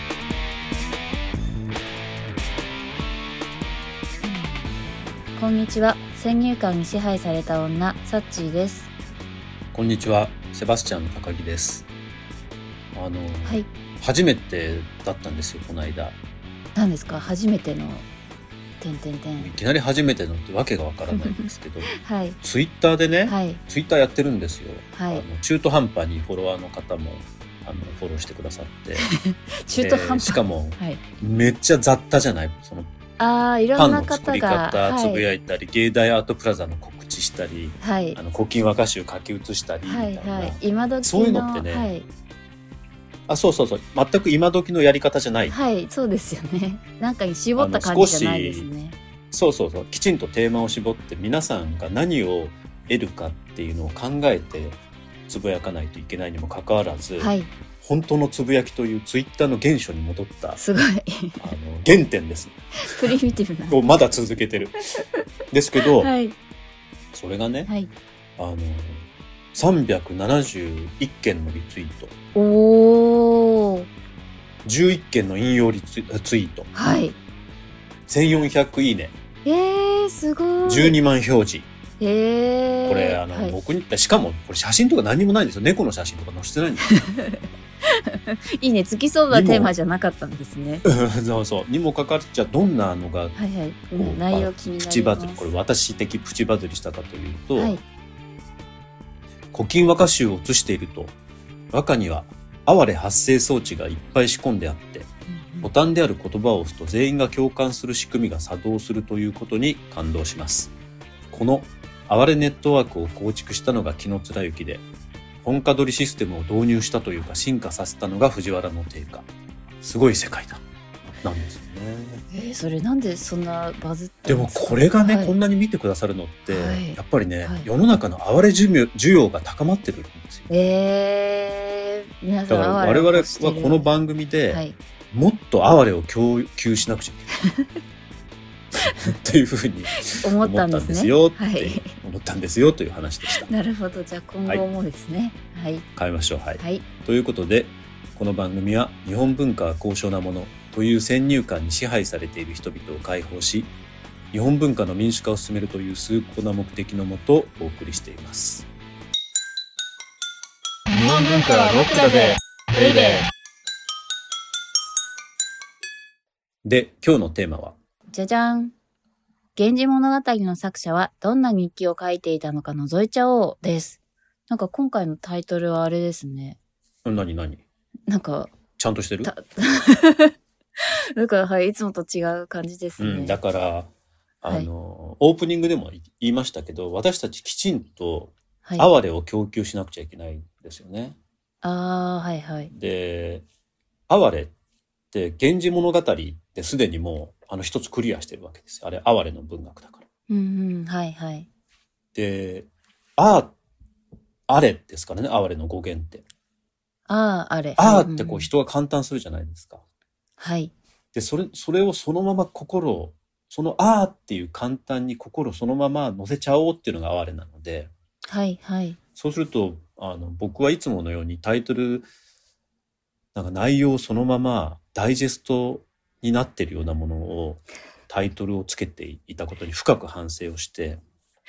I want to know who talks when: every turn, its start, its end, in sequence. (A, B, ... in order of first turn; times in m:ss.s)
0:04.2-0:04.6 A
0:05.4-0:08.9 A
0:09.7-0:11.8 B
0:12.9-0:16.2 B
0:16.7-0:18.0 A
0:18.8-0:19.5 A
0:19.4-0:29.1 B
0:21.1-0:22.4 A
0:23.2-0:23.6 A
0:24.9-0:25.2 A
0:29.0-0:31.0 A
0:29.8-0:32.9 B
0:33.2-0:35.2 A
0:33.8-0:41.9 B
0:37.8-0:38.2 A
0:39.8-0:42.1 A
0:43.3-0:45.6 B
0:45.5-0:49.0 A
0:47.6-0:48.7 B
0:49.3-1:00.6 B
0:57.2-0:57.5 A
1:00.6-1:01.5 A
1:01.4-1:03.2 B
1:02.8-1:03.8 A
1:03.7-1:04.8 B
1:05.5-1:06.1 B
1:05.9-1:06.3 A
1:07.1-1:07.7 B
1:08.4-1:12.1 B
1:12.3-1:13.9 A
1:14.6-1:16.7 B
1:16.7-1:17.2 A
1:18.1-1:19.1 B
1:19.4-1:21.0 A
1:20.6-1:21.7 B
1:22.0-1:23.6 A
1:22.8-1:26.9 B
1:26.8-1:27.4 A
1:28.1-1:30.8 A
1:29.3-1:29.7 B
1:30.8-1:33.4 B
1:33.3-1:35.5 A
1:33.9-1:37.8 B
1:37.6-1:37.8 A
1:39.5-1:41.1 B
1:41.7-1:45.1 B
1:45.3-1:45.7 A
1:45.6-1:50.7 B
1:51.3-1:54.8 B
1:55.4-1:59.2 B
1:59.8-2:00.6 B
2:01.2-2:02.2 B
2:02.3-2:05.3 A
2:04.3-2:10.5 B
2:06.5-2:07.7 A
2:10.5-2:13.9 A
2:12.5-2:17.3 B
2:14.5-2:14.8 A
2:18.7-2:23.5 B
2:20.0-2:21.9 A
2:23.3-2:25.8 A
2:25.9-2:33.7 B
2:26.6-2:26.8 A
2:34.3-2:38.7 B
2:40.9-2:43.2 C
2:46.6-2:47.8 B
2:48.1-2:48.7 A
2:49.6-2:56.6 A
2:57.0-2:57.6 B
2:58.1-2:58.5 A
2:58.8-2:59.3 B
2:59.2-3:03.4 A
3:03.0-3:03.9 B
3:04.4-3:11.2 B
3:08.6-3:08.9 A
3:11.6-3:12.7 A
3:12.7-3:13.4 B
3:14.1-3:14.5 B
3:15.1-3:20.0 B
3:20.3-3:21.5 A
3:22.1-3:23.5 B
3:24.5-3:26.2 B
3:27.1-3:28.5 A
3:27.8-3:29.8 B
3:30.4-3:30.7 A
3:31.1-3:37.9 B
3:38.2-3:39.0 A
3:39.2-3:42.1 B
3:43.3-3:51.0 B